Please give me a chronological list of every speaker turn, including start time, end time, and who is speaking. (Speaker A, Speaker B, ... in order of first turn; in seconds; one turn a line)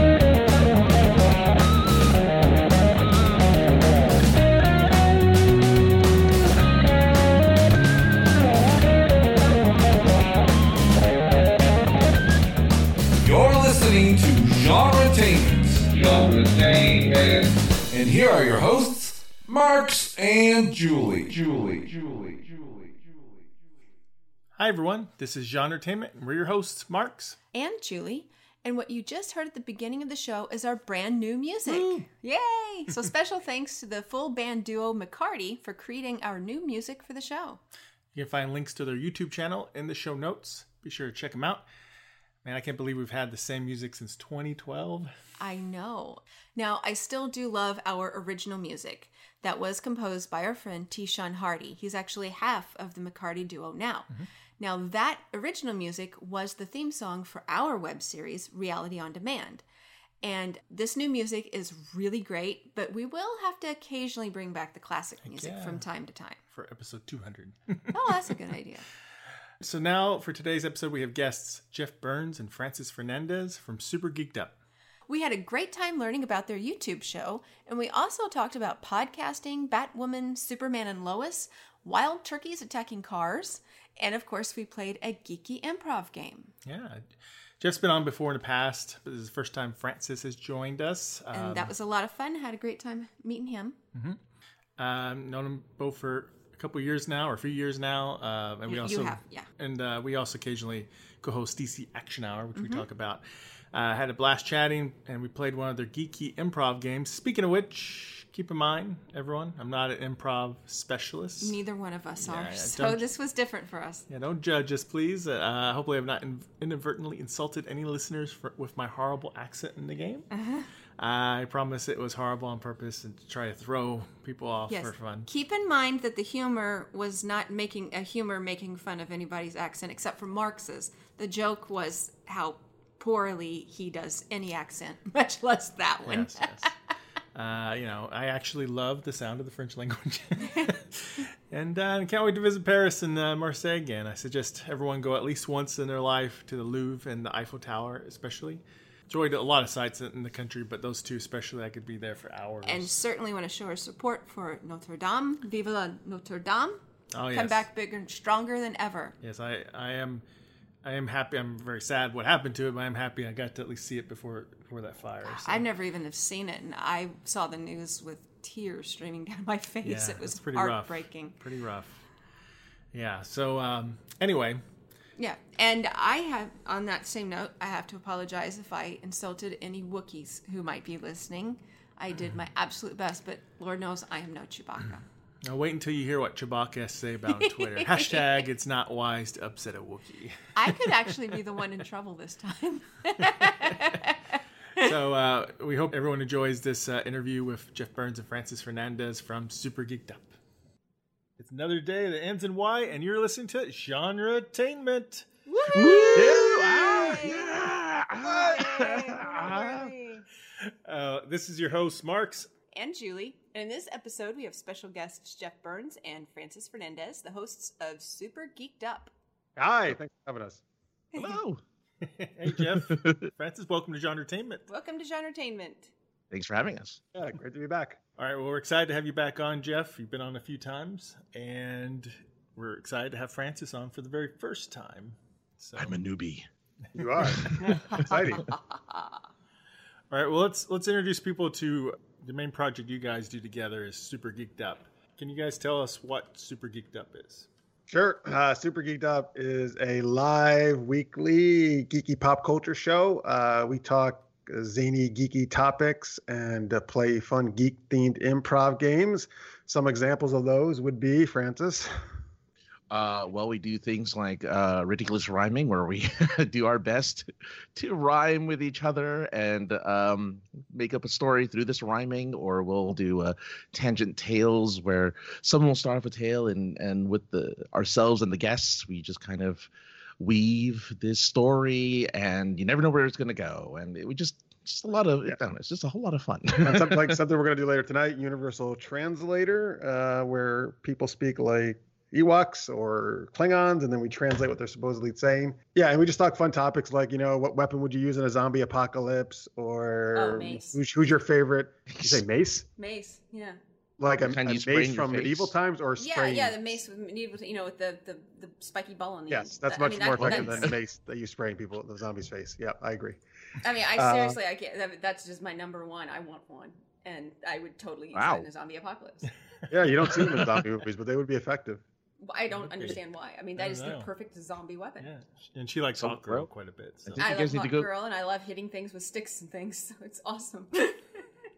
Speaker A: 13.2-23.4
Speaker B: 24.6-27.4
Speaker C: 27.5-37.6
Speaker B: 31.6-32.0
Speaker B: 38.1-41.6
Speaker B: 42.4-45.1
Speaker C: 45.4-59.6
Speaker C: 60.2-66.4
Speaker B: 65.2-65.8
Speaker B: 66.5-68.3
Speaker C: 67.9-68.8
Speaker B: 69.6-74.5
Speaker C: 75.1-86.5
Speaker B: 86.7-87.1
Speaker B: 87.6-91.7
Speaker C: 91.3-93.8
Speaker B: 94.8-111.6
Speaker C: 98.7-99.5
Speaker C: 102.5-102.8
Speaker C: 111.4-114.0
Speaker B: 112.2-113.0
Speaker B: 114.1-120.3
Speaker C: 120.3-120.7
Speaker B: 121.0-125.3
Speaker C: 124.7-136.7
Speaker B: 136.1-136.7
Speaker B: 137.3-153.0
Speaker C: 140.4-140.8
Speaker C: 152.6-159.1
Speaker B: 157.1-157.7
Speaker B: 159.2-160.2
Speaker B: 160.8-165.6
Speaker C: 165.2-171.3
Speaker B: 169.8-172.0
Speaker B: 172.9-174.6
Speaker C: 175.2-185.0
Speaker B: 185.4-191.2
Speaker C: 187.3-188.4
Speaker C: 190.6-194.9
Speaker B: 194.8-200.3
Speaker B: 201.4-205.3
Speaker C: 205.5-207.6
Speaker D: 205.7-209.9
Speaker C: 208.2-210.2
Speaker B: 210.7-212.5
Speaker C: 212.7-219.1
Speaker E: 219.6-220.6
Speaker D: 221.1-221.6
Speaker B: 222.0-224.7
Speaker D: 222.6-223.3
Speaker C: 224.7-225.9
Speaker D: 226.3-227.0
Speaker E: 227.1-228.0
Speaker B: 228.2-236.0
Speaker D: 235.8-236.5
Speaker E: 236.9-238.5
Speaker D: 237.2-237.6
Speaker C: 237.6-239.2
Speaker B: 240.1-247.5
Speaker E: 247.9-261.9
Speaker D: 262.9-287.2
Speaker E: 286.5-302.7
Speaker C: 300.1-300.8
Speaker D: 301.9-302.2
Speaker C: 302.8-303.6
Speaker E: 304.0-306.6
Speaker D: 304.1-305.5
Speaker C: 306.0-310.7
Speaker E: 309.3-313.2
Speaker D: 310.1-310.7
Speaker C: 313.6-319.3
Speaker E: 313.9-314.4
Speaker D: 318.1-318.5
Speaker E: 319.7-321.8
Speaker B: 320.1-320.4
Speaker C: 322.2-325.1
Speaker B: 322.5-323.0
Speaker B: 323.6-324.1
Speaker B: 325.0-327.2
Speaker D: 326.0-326.5
Speaker D: 327.0-327.9
Speaker C: 327.2-331.0